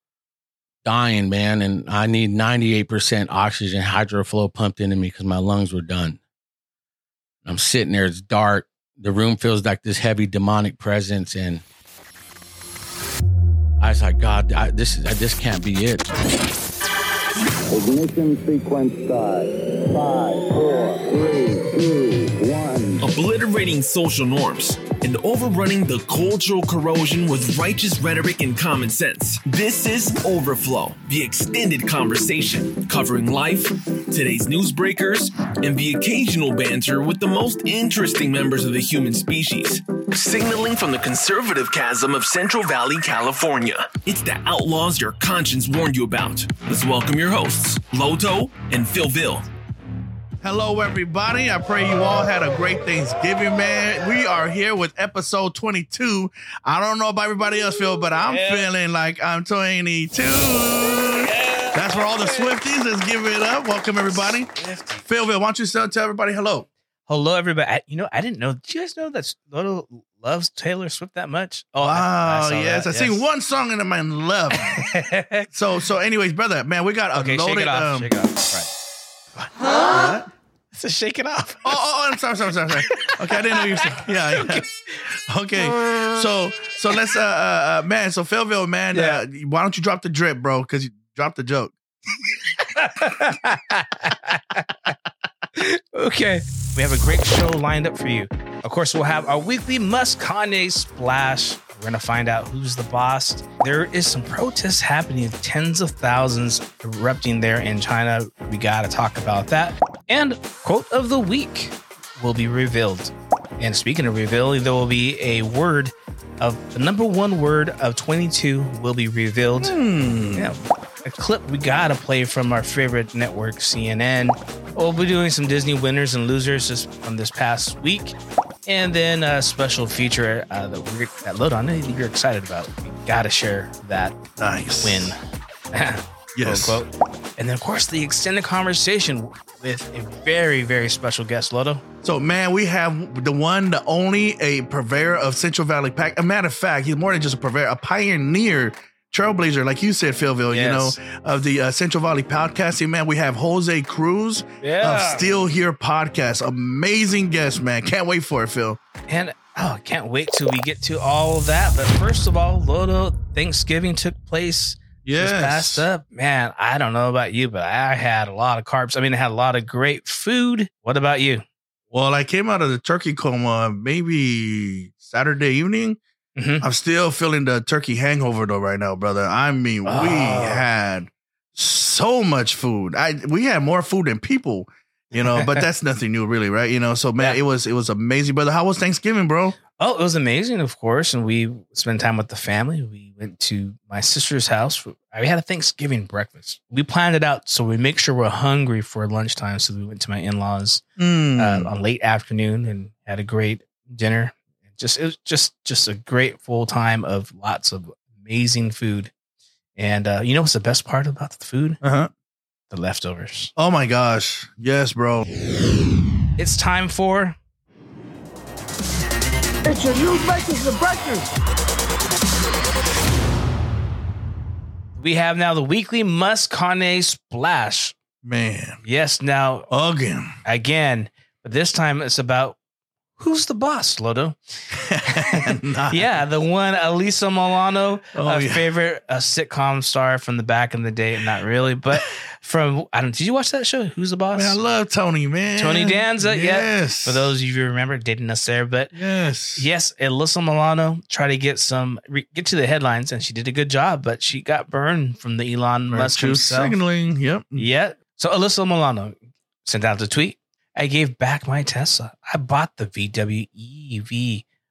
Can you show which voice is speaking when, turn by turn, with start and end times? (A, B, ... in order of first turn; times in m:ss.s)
0:00.8-0:06.2 A
0:07.4-0:11.6 A
0:13.8-0:16.1 A
0:17.7-0:23.0 B
0:23.0-0:49.5 C
0:50.4-1:04.5 D
0:58.3-0:58.7 E
1:01.2-1:02.6 E
1:04.1-1:05.0 E
1:05.0-1:06.7 D
1:07.1-1:13.2 E
1:11.8-1:14.9 D
1:14.5-1:15.5 E
1:15.5-1:18.1 D
1:17.1-1:18.7 E
1:19.4-1:20.3 D
1:20.7-1:21.8 E
1:21.6-1:24.6 D
1:22.8-1:25.0 E
1:25.3-1:31.7 D
1:28.9-1:29.2 E
1:32.7-1:34.7 E
1:35.6-1:59.8 E
1:59.6-2:00.5 D
2:00.3-2:14.2 E
2:14.4-2:15.1 D
2:14.8-2:15.2 E
2:15.7-2:21.8 E
2:16.4-2:16.8 D
2:22.0-2:38.8 D
2:30.5-2:31.0 E
2:34.6-2:35.3 E
2:39.1-2:51.4 E
2:45.0-2:45.8 D
2:51.9-2:56.0 D
2:56.4-2:56.6 E
2:56.6-3:09.6 D
2:59.8-3:00.6 E
3:05.2-3:05.6 E
3:09.8-3:20.8 E
3:21.0-3:21.7 D
3:21.4-3:29.1 E
3:29.8-3:31.8 E
3:31.8-3:32.1 D
3:32.7-3:33.5 E
3:33.6-3:35.3 D
3:36.4-3:37.4 E
3:39.7-3:41.2 D
3:45.0-3:47.9 E
3:48.2-3:48.8 D
3:48.8-3:49.7 E
3:49.7-3:50.3 D
3:50.4-3:52.6 E
3:53.2-4:04.6 E
3:54.7-3:56.1 D
3:58.2-3:58.6 D
4:04.3-4:07.3 D
4:05.6-4:09.0 E
4:08.9-4:09.7 D
4:09.6-4:16.8 E
4:15.9-4:17.7 D
4:17.6-4:24.4 E